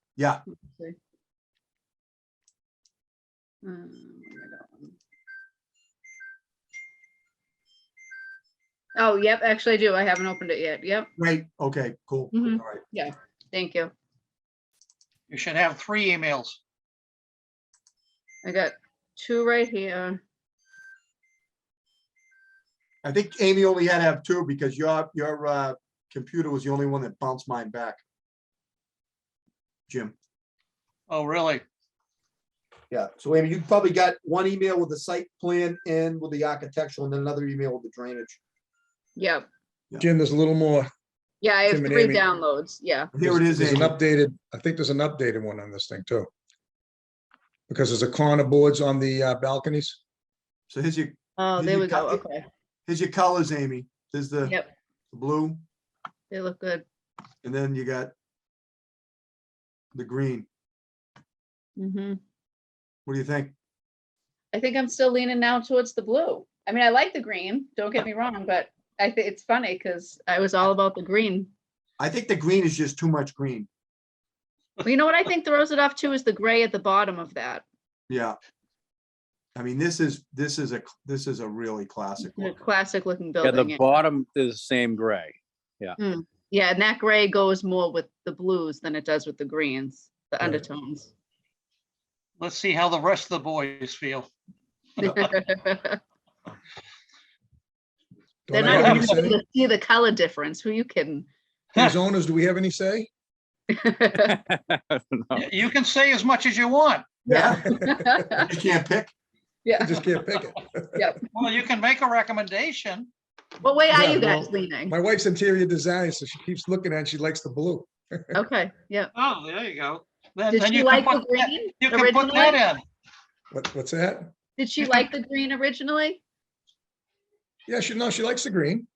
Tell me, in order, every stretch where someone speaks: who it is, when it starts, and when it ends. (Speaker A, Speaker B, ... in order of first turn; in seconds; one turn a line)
Speaker A: 0.2-0.4
Speaker B: 0.5-0.9
Speaker B: 3.6-4.9
Speaker B: 8.9-11.1
Speaker A: 11.2-12.8
Speaker B: 12.3-13.9
Speaker C: 15.3-16.6
Speaker B: 18.4-20.2
Speaker A: 23.0-28.0
Speaker A: 29.9-30.1
Speaker C: 31.1-31.6
Speaker A: 32.9-38.4
Speaker B: 39.2-39.5
Speaker D: 40.0-40.9
Speaker B: 41.4-43.1
Speaker D: 41.7-42.2
Speaker A: 43.1-44.0
Speaker D: 43.2-46.3
Speaker D: 47.7-50.0
Speaker A: 50.7-52.2
Speaker B: 51.4-52.4
Speaker A: 52.9-54.6
Speaker B: 54.5-54.7
Speaker A: 55.1-55.6
Speaker B: 56.3-56.8
Speaker A: 57.4-58.1
Speaker A: 59.9-60.5
Speaker B: 61.8-62.2
Speaker A: 63.0-63.5
Speaker B: 64.5-71.5
Speaker A: 72.0-73.7
Speaker B: 74.8-77.6
Speaker A: 78.1-78.3
Speaker A: 79.5-82.6
Speaker B: 82.2-83.8
Speaker E: 83.4-86.0
Speaker B: 86.0-91.1
Speaker C: 92.4-94.3
Speaker B: 95.0-96.0
Speaker C: 95.0-95.3
Speaker D: 98.5-99.4
Speaker B: 98.5-101.3
Speaker C: 98.6-99.2
Speaker D: 101.8-103.1
Speaker B: 103.7-104.4
Speaker E: 104.2-105.5
Speaker C: 105.3-107.0
Speaker B: 107.2-108.5
Speaker A: 107.3-107.7
Speaker A: 108.3-109.1
Speaker B: 109.6-110.0
Speaker D: 109.8-111.2
Speaker B: 111.0-111.3
Speaker C: 111.3-113.1
Speaker B: 113.6-114.9
Speaker D: 113.9-118.3
Speaker B: 118.3-119.1
Speaker C: 119.1-122.8
Speaker B: 120.5-122.6
Speaker D: 123.5-124.3
Speaker B: 124.6-126.2
Speaker D: 127.7-128.9